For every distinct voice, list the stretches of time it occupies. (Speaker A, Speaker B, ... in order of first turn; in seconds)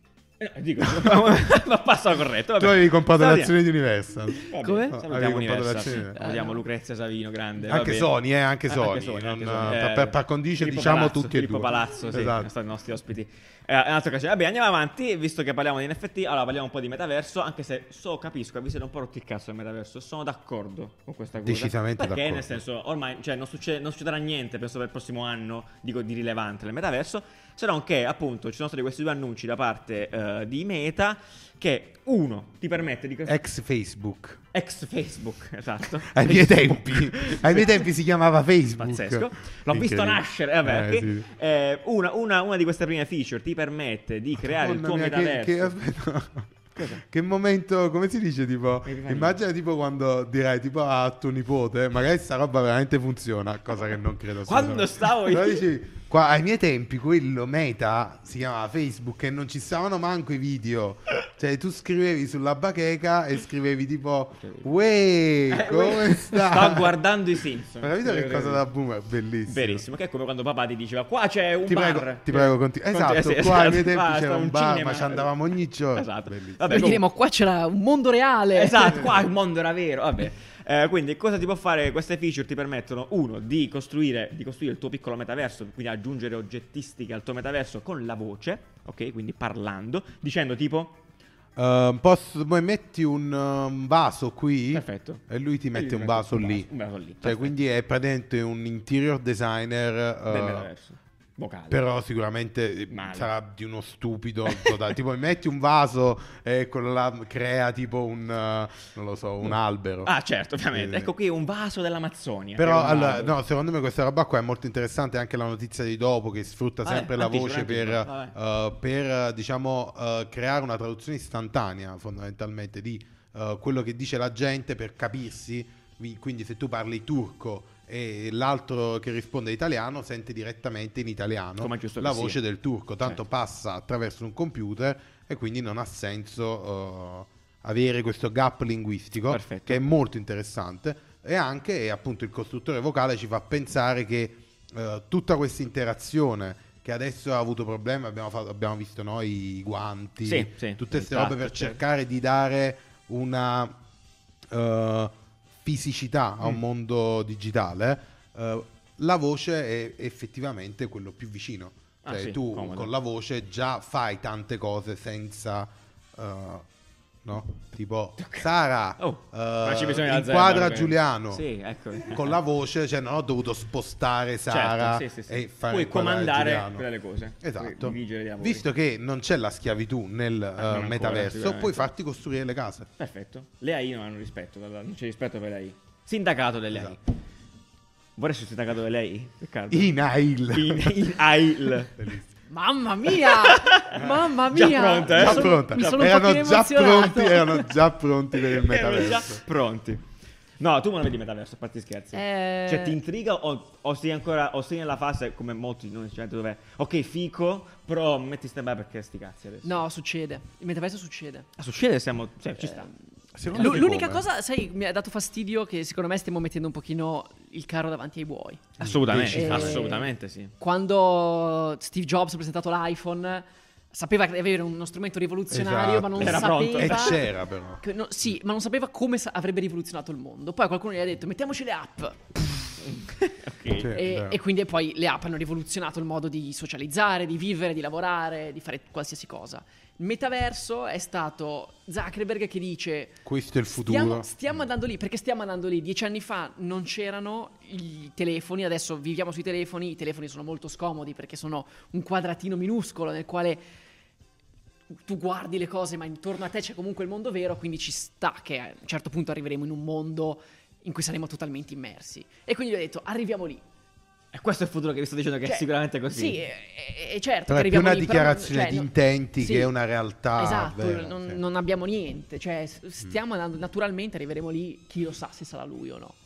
Speaker A: 0.4-3.5, 4.4-8.1, 8.7-33.4, 34.5-37.9, 38.7-45.7, 46.8-47.0, 48.8-49.4, 54.4-55.6, 64.4-64.7, 65.5-68.6, 69.5-75.3, 75.9-77.0, 78.5-91.0, 94.7-95.2, 95.7-97.5, 100.3-101.8, 102.9-103.3, 110.0-113.4, 116.8-118.3, 131.6-132.4, 139.3-139.8, 150.2-151.8, 162.0-162.9, 168.2-172.4, 174.5-178.6, 180.6-181.8, 183.0-187.0, 188.2-189.9, 190.5-192.0, 193.1-196.1, 198.4-200.0, 200.6-209.8, 211.6-212.9, 213.5-213.9, 218.8-220.5, 226.2-227.2, 232.9-233.9, 264.3-266.4
Speaker B: 0.8-1.2, 2.6-6.2, 7.6-12.5, 21.4-22.6, 33.2-34.4, 36.1-41.3, 44.4-66.9, 67.8-69.8, 71.6-76.9, 91.5-96.7, 97.2-100.7, 101.7-110.1, 110.7-111.1, 112.6-153.8, 154.5-166.7, 167.2-171.4, 172.1-176.8, 177.4-182.9, 189.7-191.2, 191.9-192.3, 195.1-199.4, 213.3-214.2, 218.8-219.8, 225.5-227.8, 233.8-234.4, 243.2-244.3, 267.5-271.4
Speaker C: 4.6-5.0, 6.1-6.6, 76.7-79.0, 192.5-197.7, 202.1-203.0, 209.6-211.5, 212.6-212.9, 213.5-218.8, 219.3-227.2, 227.8-232.4, 233.9-243.2, 243.8-253.6, 255.1-263.6, 265.4-269.7, 270.4-276.1